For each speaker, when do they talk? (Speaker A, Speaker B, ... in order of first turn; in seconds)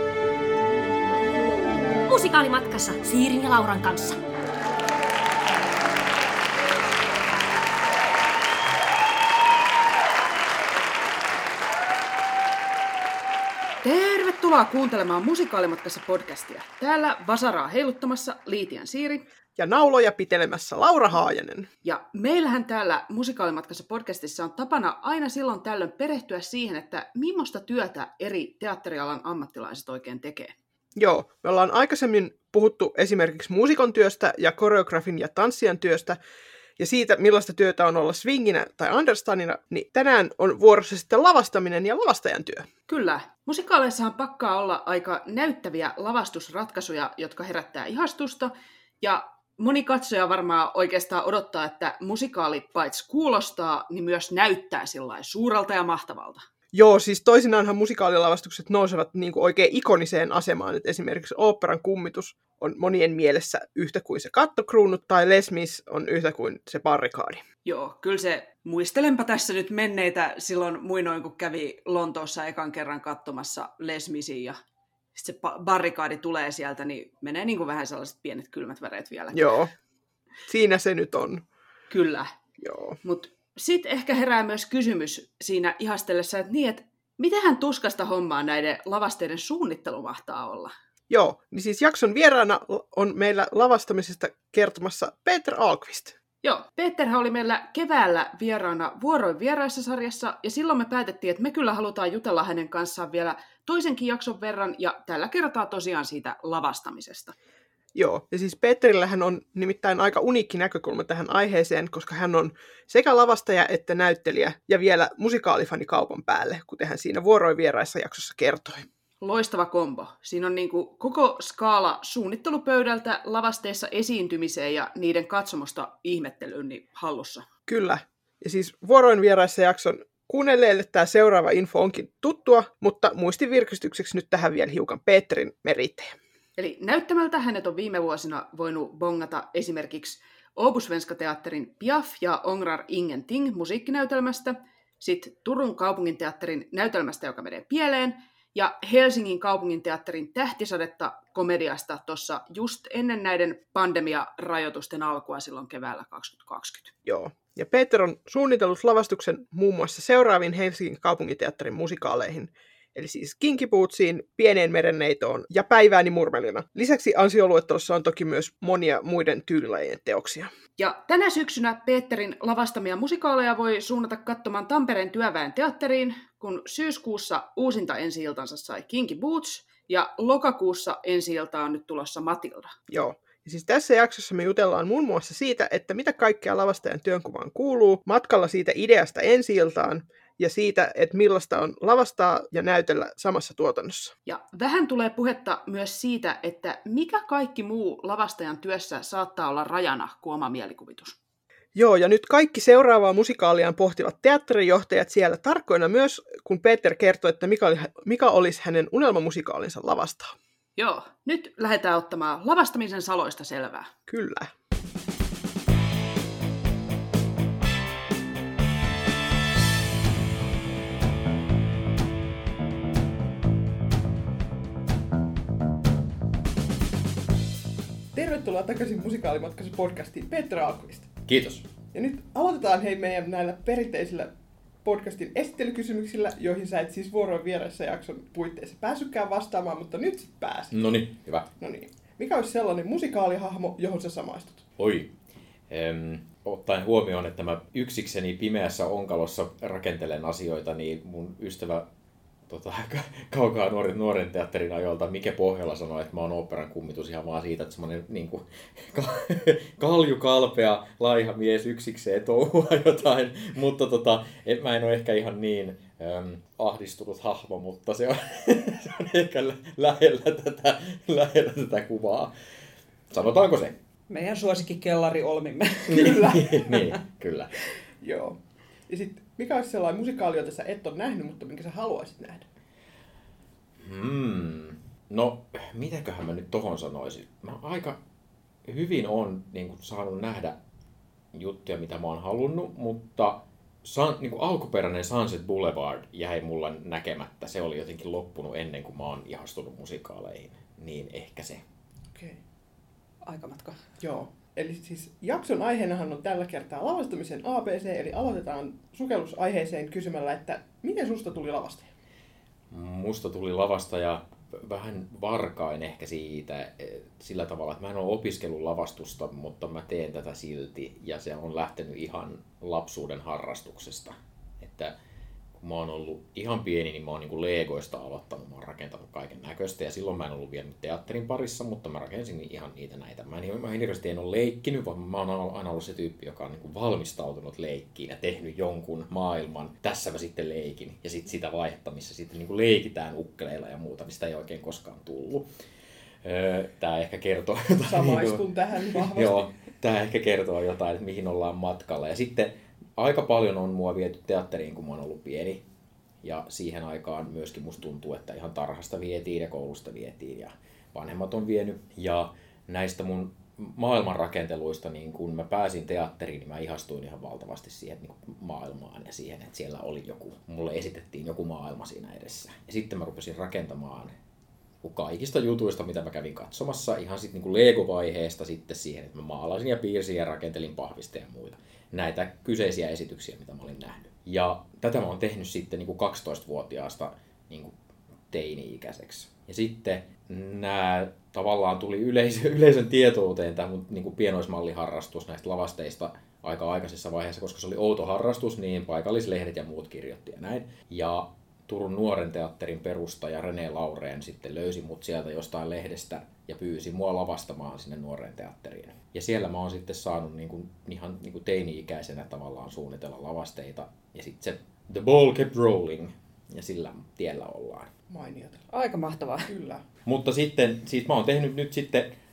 Speaker A: 2.1-4.2
Speaker B: 13.8-19.2, 21.8-30.5, 42.9-56.4, 67.6-74.6, 75.2-79.5, 81.9-82.3, 83.0-90.7, 96.4-107.3, 119.2-127.5, 136.6-156.9, 170.8-182.7, 194.2-201.2, 210.8-213.9, 274.1-276.9, 303.2-303.8, 418.7-419.5
Speaker C: 19.6-21.7, 30.9-36.2, 36.8-42.7, 56.7-67.4, 79.3-79.7, 80.5-81.4, 82.6-83.0, 91.1-96.2, 107.9-118.9, 127.7-136.1, 157.1-170.5, 182.9-194.1, 201.7-210.3, 214.1-214.5, 228.1-231.1, 231.9-234.3, 234.8-240.8, 241.6-244.7, 278.0-278.4, 278.9-282.4, 302.1-302.4, 304.0-311.9, 347.8-349.5, 418.1-418.7, 419.5-419.8
Speaker D: 231.2-231.7, 240.7-241.4, 244.8-245.1, 245.7-251.9, 252.5-272.3, 273.1-273.7, 275.9-277.5, 283.8-288.0, 288.6-290.6, 291.3-301.6, 312.7-324.9, 325.6-345.5, 346.2-355.6, 356.2-374.1, 374.8-387.7, 388.3-417.9, 420.0-422.1